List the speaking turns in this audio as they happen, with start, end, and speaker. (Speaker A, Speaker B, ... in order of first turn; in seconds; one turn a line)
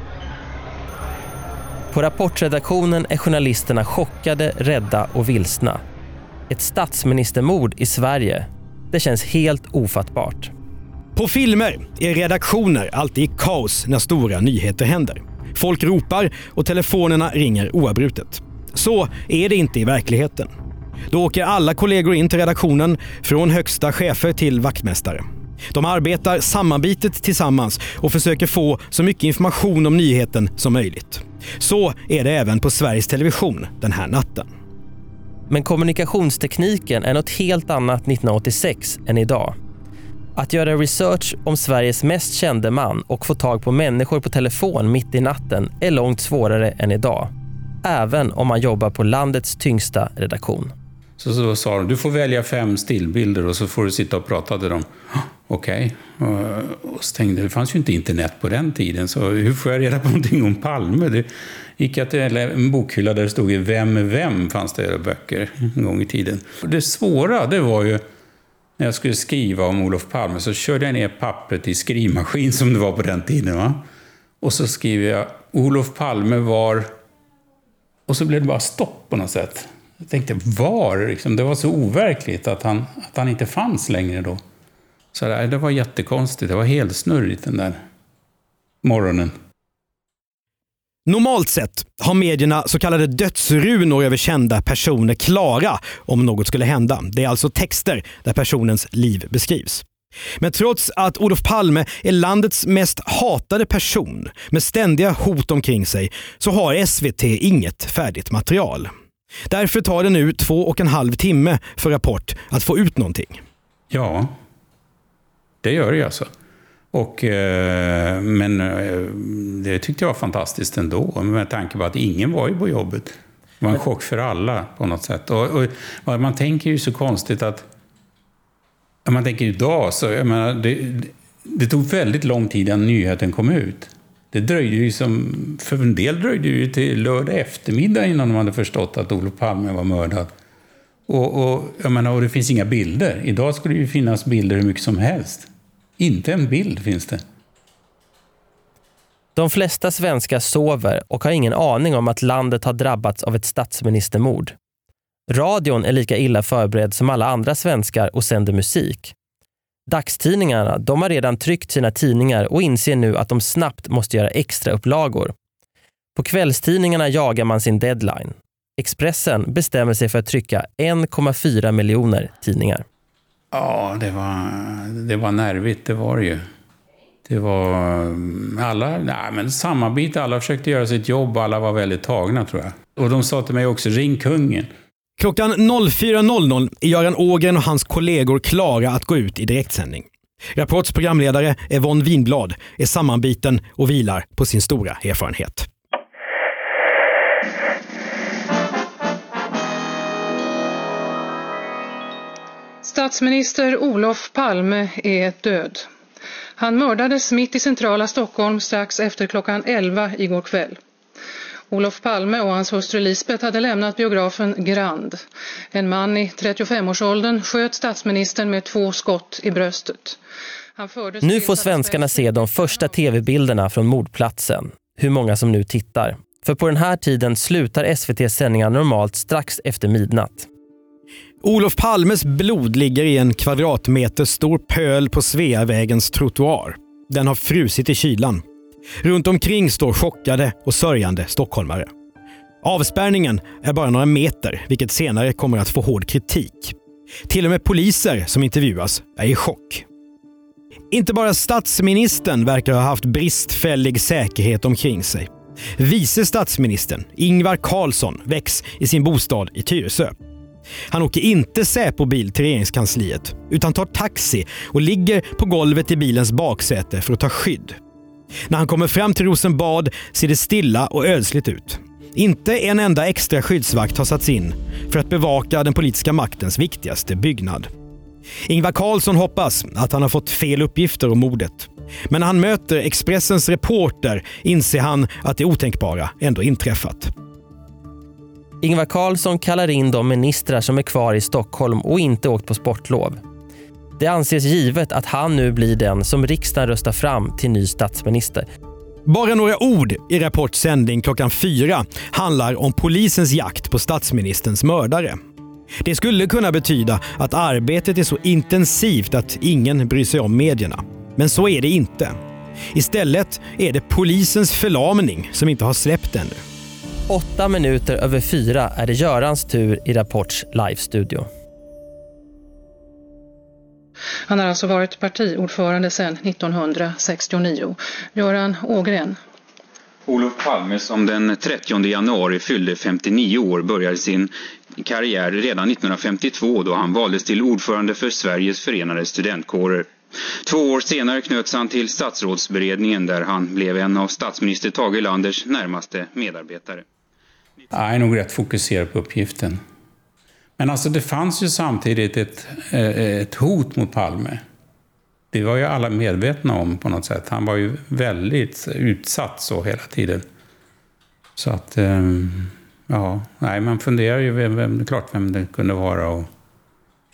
Speaker A: 1.9-5.8
Speaker A: 6.5-10.5
Speaker B: 11.2-20.5
Speaker B: 21.1-34.5
Speaker A: 35.5-39.5
Speaker A: 40.4-47.3
Speaker A: 47.8-50.7
Speaker C: 51.2-68.0
Speaker C: 68.8-73.8
Speaker C: 74.4-76.9
Speaker C: 78.1-84.4
Speaker C: 85.1-87.8
Speaker C: 88.8-89.3
Speaker B: 91.1-99.8
Speaker B: 100.4-108.9
Speaker B: 109.5-113.4
Speaker C: 113.9-114.3
Speaker C: 115.6-116.3
Speaker C: 116.9-127.7
Speaker C: 129.1-140.3
Speaker C: 141.1-147.2
Speaker A: 149.4-154.6
Speaker A: 155.3-159.1
Speaker A: 159.9-165.3
Speaker A: 166.2-172.8
Speaker C: 173.5-176.4
Speaker C: 177.2-184.7
Speaker B: 185.2-195.7
Speaker D: 202.8-205.9
Speaker D: 206.6-210.8
Speaker D: 211.7-220.2
Speaker D: 220.8-223.0
Speaker A: 221.2-230.5
Speaker B: 231.4-238.4
Speaker B: 239.0-241.9
Speaker B: 242.6-246.8
Speaker B: 247.3-249.9
Speaker B: 250.9-260.1
Speaker B: 260.9-267.8
Speaker B: 268.5-277.7
Speaker B: 278.5-287.1
Speaker A: 288.6-293.2
Speaker A: 294.0-298.5
Speaker B: 299.1-305.2
Speaker B: 305.8-312.1
Speaker B: 312.7-316.4
Speaker A: 317.1-321.3
Speaker D: 324.3-329.2
Speaker E: 330.1-339.9
Speaker E: 340.4-346.9
Speaker C: 347.7-349.6
Speaker C: 350.6-354.4
Speaker C: 355.3-360.2
Speaker C: 361.4-366.3